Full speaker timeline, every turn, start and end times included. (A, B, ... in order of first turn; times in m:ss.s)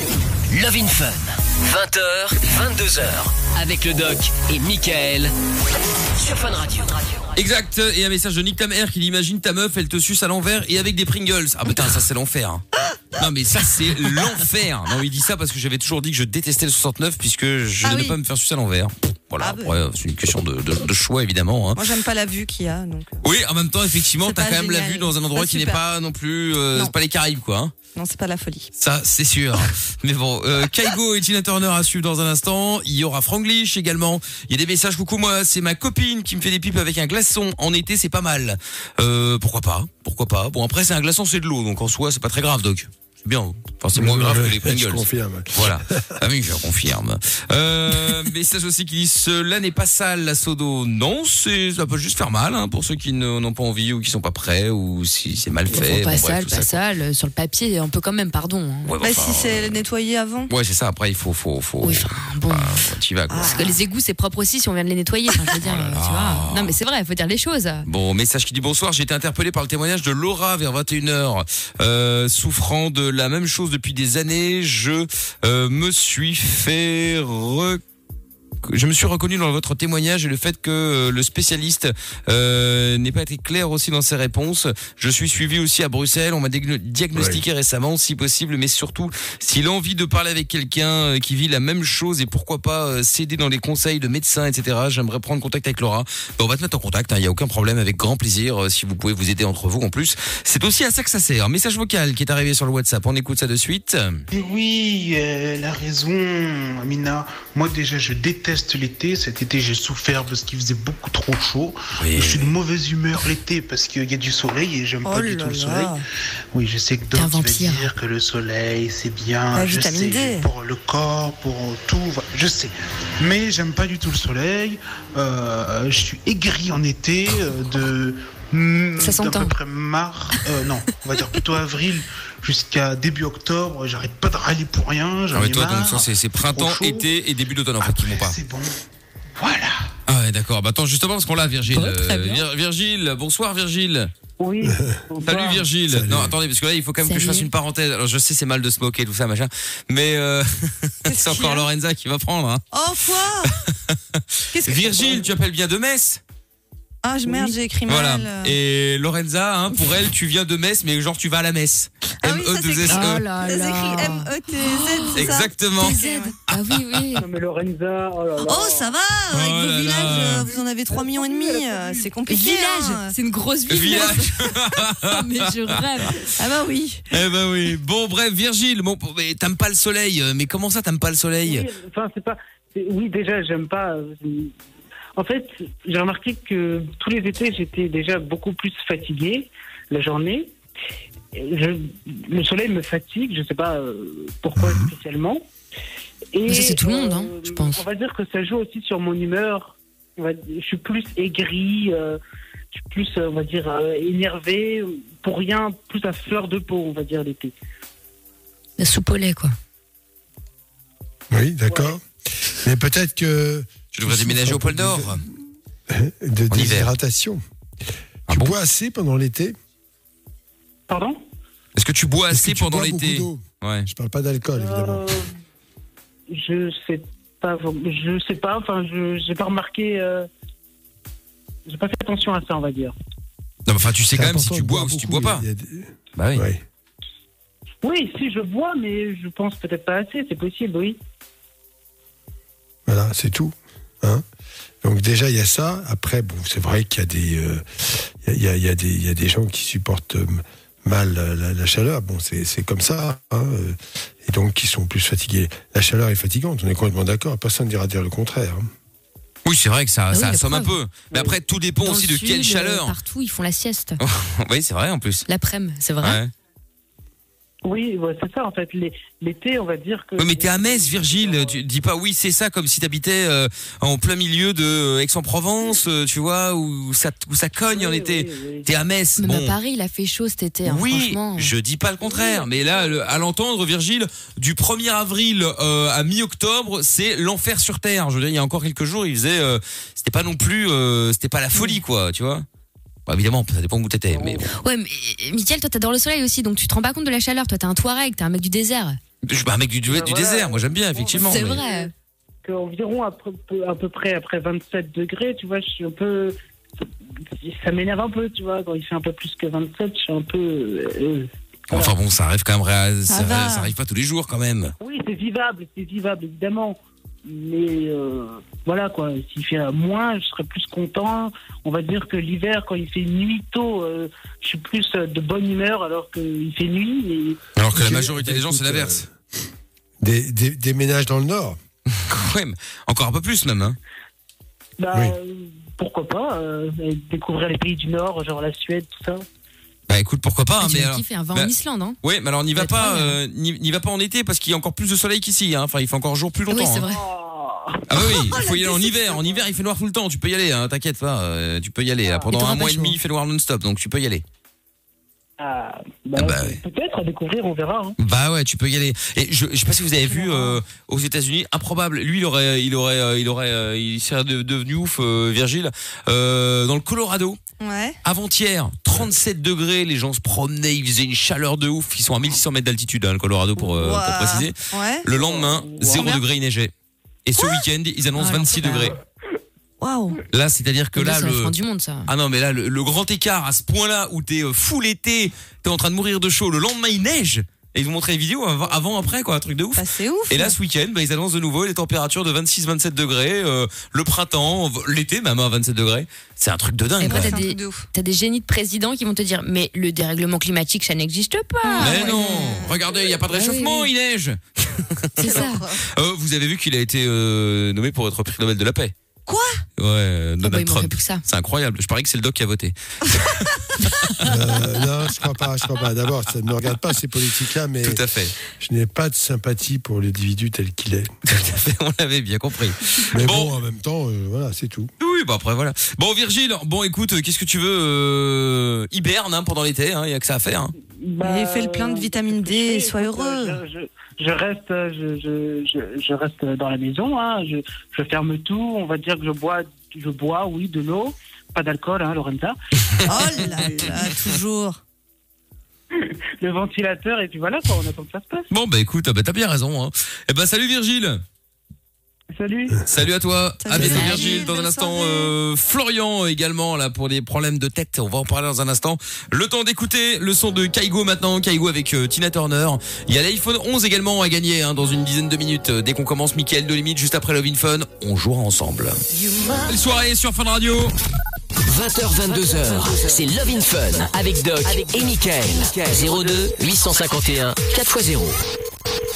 0:00.5-0:05.3 A
0:06.2-0:07.2 A
0:07.3-0:21.8 B
0:17.8-0:18.2 C
0:19.4-0:19.8 C
0:21.7-0:23.3 C
0:23.2-0:27.7 B
0:24.2-0:25.8 C
0:27.9-0:28.7 C
0:28.8-0:56.8 B
0:43.9-0:46.2 D
0:55.7-0:59.0 E
0:58.8-0:59.9 B
0:59.0-1:00.5 C
1:00.5-1:03.5 B
1:01.8-1:02.8 E
1:03.3-1:03.8 C
1:03.4-1:07.8 E
1:05.6-1:06.8 B
1:07.8-1:17.8 B
1:18.6-1:44.2 B
1:27.1-1:27.4 D
1:44.3-1:56.0 F
1:52.0-1:52.5 B
1:55.0-1:56.0 C
1:56.5-2:17.1 F
1:57.1-1:57.9 E
1:59.5-2:00.5 C
2:09.0-2:09.5 E
2:15.3-2:18.4 B
2:17.8-2:18.7 F
2:19.4-2:19.8 F
2:20.1-2:24.1 B
2:21.7-2:22.4 E
2:24.4-2:25.6 G
2:24.7-2:25.0 D
2:25.2-2:32.6 B
2:25.9-2:26.4 D
2:27.0-2:27.5 E
2:31.0-2:31.7 C
2:32.7-2:33.6 C
2:33.4-2:36.2 B
2:34.5-2:35.2 C
2:37.0-2:38.6 C
2:37.8-2:43.2 B
2:42.2-2:46.4 C
2:42.8-2:47.2 E
2:45.1-2:46.8 B
2:47.2-2:48.9 G
2:48.4-2:53.2 C
2:49.3-2:50.5 B
2:49.9-2:52.1 G
2:52.3-2:56.2 E
2:53.7-2:56.2 B
2:56.3-2:57.0 C
2:57.1-3:01.7 B
3:01.4-3:04.5 G
3:05.2-3:10.5 G
3:11.3-3:15.4 G
3:16.3-3:22.2 G
3:16.4-3:17.8 E
3:22.7-3:27.5 G
3:28.8-3:29.5 E
3:31.3-3:35.3 D
3:31.7-3:32.0 G
3:33.9-3:35.2 B
3:35.9-3:37.4 D
3:36.5-3:36.9 B
3:38.3-3:38.6 B
3:38.3-3:39.5 D
3:40.9-3:41.2 G
3:41.7-3:43.9 B
3:42.3-3:45.2 D
3:44.5-3:45.3 G
3:46.3-3:50.3 G
3:51.7-3:52.9 G
3:53.7-3:55.4 B
3:54.1-3:56.6 D
3:56.2-3:56.4 B
3:57.8-4:01.0 G
4:02.8-4:04.2 D
4:04.8-4:18.7 D
4:19.4-4:23.0 B
4:20.1-4:20.8 E
4:21.1-4:21.4 G
4:21.8-4:24.0 E
4:24.0-4:25.3 B
4:25.3-4:26.2 E
4:26.0-4:26.3 B
4:27.6-4:31.6 G
4:30.2-4:39.5 B
4:37.6-4:38.7 G
4:39.2-4:41.5 E
4:40.6-4:52.4 B
4:42.0-4:42.7 G
4:53.1-4:54.5 B
4:54.1-4:54.5 G
4:54.5-4:59.0 E
4:59.2-5:01.6 B
4:59.8-5:01.9 G
5:01.2-5:01.9 E
5:02.4-5:06.4 G
5:07.4-5:11.9 G
5:11.7-5:14.7 B
5:13.1-5:13.7 C
5:14.8-5:27.4 G
5:27.6-5:29.0 B
5:27.7-5:29.1 D
5:30.0-5:31.6 D
5:32.0-5:33.8 B
5:34.8-5:39.2 G
5:39.9-5:46.8 B
5:40.6-5:42.0 E
5:42.6-5:43.2 E
5:46.5-5:47.0 E
5:46.8-5:48.4 G
5:47.9-5:54.2 B
5:48.2-5:49.0 C
5:52.0-5:52.3 G
5:52.3-5:53.0 E
5:55.4-5:58.0 G
5:56.2-5:56.6 B
5:58.0-6:07.4 B
6:00.1-6:00.5 C
6:07.6-6:08.0 C
6:08.0-6:16.7 B
6:13.6-6:15.0 C
6:15.1-6:16.1 G
6:15.9-6:16.2 E
6:17.2-6:19.0 B
6:17.4-6:18.9 C
6:19.8-6:20.2 C
6:20.3-6:21.5 B
6:20.9-6:22.1 E
6:22.0-6:37.4 B
6:29.7-6:30.6 C
6:37.0-6:42.6 E
6:37.0-6:37.9 C
6:41.6-6:43.2 C
6:41.8-6:48.9 B
6:43.3-6:43.9 E
6:45.2-6:45.6 E
6:45.2-6:45.8 C
6:49.2-6:49.6 C
6:49.8-6:54.7 B
6:50.4-6:51.2 E
6:54.2-7:01.5 D
6:57.8-6:58.4 B
7:01.3-7:03.5 B
7:03.1-7:04.9 D
7:05.0-7:10.7 B
7:10.9-7:23.9 G
7:11.2-7:13.6 C
7:23.1-7:24.8 C
7:25.9-7:28.5 G
7:28.5-7:31.2 B
7:32.3-7:32.8 G
7:32.8-7:49.0 B
7:33.6-7:35.3 C
7:33.7-7:34.4 E
7:49.6-7:50.9 B
7:51.7-7:58.4 A